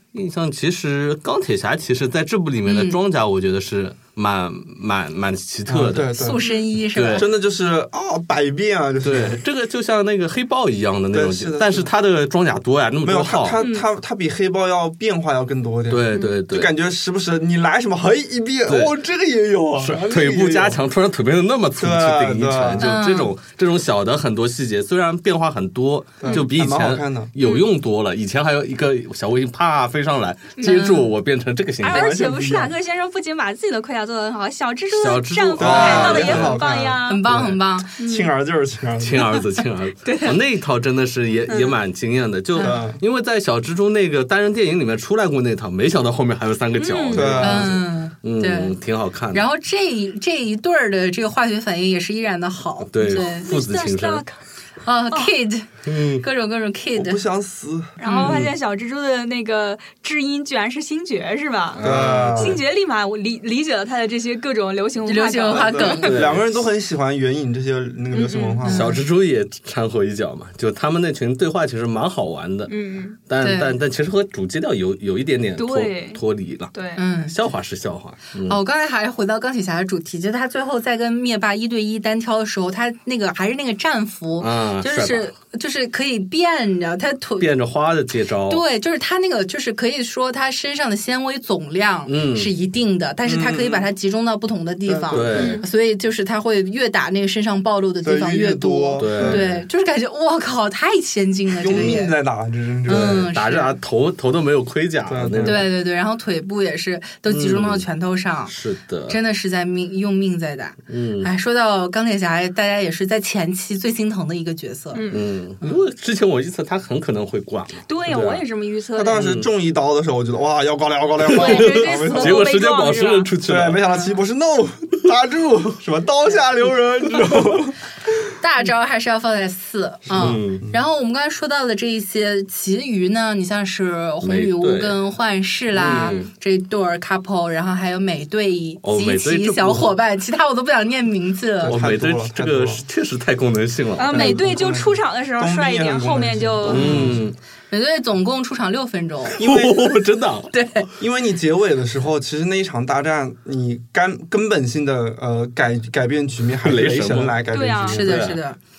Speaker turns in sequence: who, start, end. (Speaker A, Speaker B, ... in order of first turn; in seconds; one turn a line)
Speaker A: 0.1-6.1
Speaker B: 2.6-3.0
Speaker C: 5.7-6.4
Speaker B: 6.1-7.3
Speaker A: 7.0-7.3
Speaker C: 7.1-9.4
Speaker A: 9.0-13.6
Speaker C: 11.1-11.9
Speaker C: 13.0-20.8
Speaker D: 13.6-13.9
Speaker A: 15.9-16.7
Speaker D: 16.1-16.4
Speaker A: 18.7-18.9
Speaker A: 19.8-32.2
Speaker C: 21.8-22.9
Speaker B: 22.8-23.3
Speaker C: 26.2-27.3
Speaker D: 27.4-27.6
Speaker D: 30.6-30.9
Speaker B: 30.6-31.1
Speaker D: 31.8-37.3
Speaker C: 31.9-32.7
Speaker A: 34.9-36.7
Speaker C: 35.6-39.4
Speaker B: 37.0-38.0
Speaker D: 38.0-38.3
Speaker A: 39.0-49.4
Speaker D: 40.0-40.4
Speaker D: 41.5-41.8
Speaker B: 42.6-42.8
Speaker C: 42.6-43.0
Speaker D: 46.8-47.4
Speaker C: 47.1-47.8
Speaker B: 47.4-48.8
Speaker B: 49.3-53.5
Speaker A: 52.9-54.2
Speaker D: 53.1-54.4
Speaker B: 54.8-57.2
Speaker A: 55.9-56.2
Speaker C: 56.9-58.0
Speaker D: 58.0-66.1
Speaker B: 58.0-58.4
Speaker A: 58.2-58.5
Speaker A: 61.8-62.6
Speaker C: 61.8-62.6
Speaker B: 65.1-66.2
Speaker C: 65.5-69.0
Speaker A: 66.0-66.6
Speaker D: 68.1-68.7
Speaker A: 68.6-72.7
Speaker B: 68.7-69.0
Speaker D: 72.7-73.2
Speaker A: 73.3-76.7
Speaker B: 73.4-73.8
Speaker D: 75.6-76.2
Speaker D: 76.7-77.0
Speaker B: 77.0-77.4
Speaker A: 77.2-78.6
Speaker B: 78.5-87.5
Speaker A: 84.4-85.3
Speaker A: 87.4-88.6
Speaker B: 88.5-102.1
Speaker A: 92.1-92.5
Speaker C: 93.2-93.9
Speaker C: 94.9-95.6
Speaker A: 95.1-95.6
Speaker D: 95.3-95.7
Speaker C: 98.0-99.6
Speaker A: 99.0-99.5
Speaker C: 101.6-103.3
Speaker B: 102.9-103.8
Speaker A: 102.9-105.7
Speaker C: 105.1-105.7
Speaker B: 105.4-108.5
Speaker A: 107.3-107.9
Speaker A: 108.5-109.2
Speaker B: 109.1-115.0
Speaker A: 110.9-111.3
Speaker D: 114.9-115.3
Speaker A: 115.1-118.4
Speaker D: 117.9-119.2
Speaker C: 119.0-122.5
Speaker A: 119.1-119.5
Speaker A: 121.2-123.8
Speaker D: 121.3-123.3
Speaker C: 123.4-127.8
Speaker B: 128.4-141.8
Speaker C: 130.1-130.8
Speaker A: 130.2-130.6
Speaker A: 134.2-135.0
Speaker A: 135.8-136.3
Speaker C: 135.8-136.1
Speaker A: 138.8-139.9
Speaker C: 141.6-142.8
Speaker A: 141.6-144.4
Speaker D: 144.0-147.1
Speaker C: 144.1-147.3
Speaker A: 146.7-147.4
Speaker B: 147.7-149.4
Speaker C: 149.4-150.0
Speaker A: 149.4-150.5
Speaker B: 150.5-150.9
Speaker C: 151.0-158.4
Speaker A: 156.6-157.4
Speaker D: 157.5-158.0
Speaker A: 157.9-158.4
Speaker B: 157.9-158.6